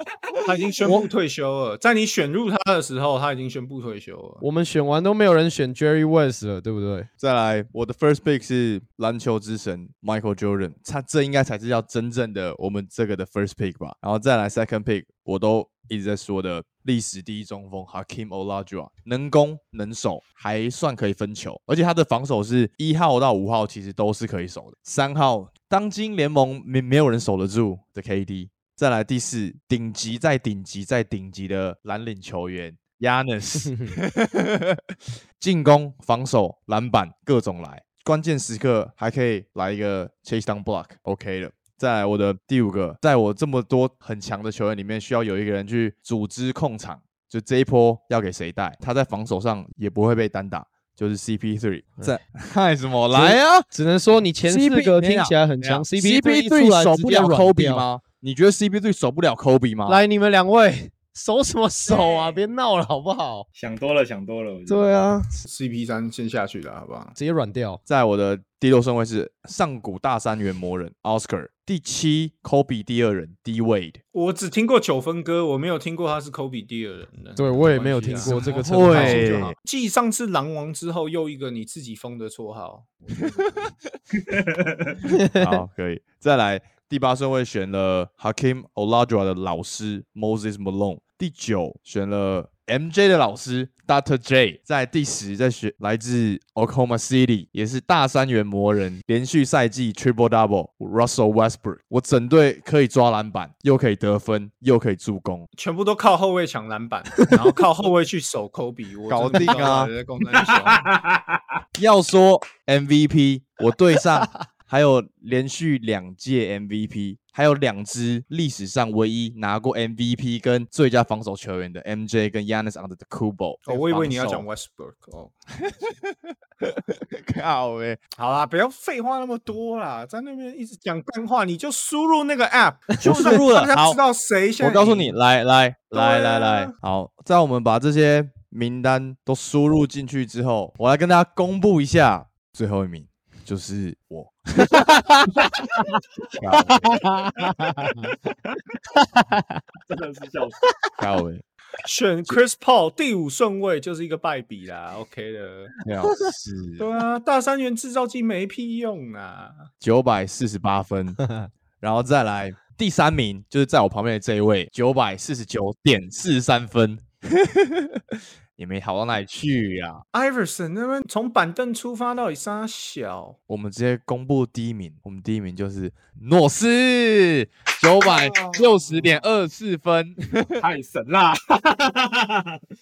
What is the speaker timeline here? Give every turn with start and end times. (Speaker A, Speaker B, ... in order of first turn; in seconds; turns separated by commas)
Speaker A: 0.4-4.4, Speaker B: 4.4-7.1, Speaker C: 7.2-53.7, Speaker B: 33.6-33.9, Speaker B: 53.1-57.9, Speaker C: 54.4-60.0, Speaker B: 59.9-63.5, Speaker D: 63.5-64.9, Speaker B: 64.7-65.3, Speaker A: 65.3-67.1, Speaker B: 67.1-67.8, Speaker C: 67.8-74.0, Speaker A: 74.1-83.7, Speaker B: 77.3-79.3, Speaker C: 78.2-79.5, Speaker C: 83.3-83.8, Speaker D: 84.2-85.0, Speaker B: 85.1-85.5, Speaker C: 85.3-105.5, Speaker A: 105.5-110.9, Speaker C: 109.1-109.9, Speaker D: 110.3-111.4, Speaker C: 111.8-124.4, Speaker A: 123.7-125.3, Speaker C: 125.6-128.0, Speaker A: 128.2-135.1, Speaker C: 133.0-134.0, Speaker C: 134.6-144.9, Speaker A: 135.9-136.7, Speaker B: 144.7-145.3, Speaker D: 145.4-145.8, Speaker C: 146.4-147.1, Speaker B: 146.5-148.1, Speaker B: 148.9-149.6, Speaker D: 149.9-150.6, Speaker C: 151.0-151.4, Speaker A: 151.8-155.7, Speaker C: 155.8-156.9, Speaker A: 156.8-159.7, Speaker C: 159.8-161.2, Speaker B: 161.2-161.5, Speaker C: 161.8-170.0, Speaker A: 170.1-173.4, Speaker C: 173.5-180.6, Speaker A: 178.0-179.3, Speaker D: 180.6-182.6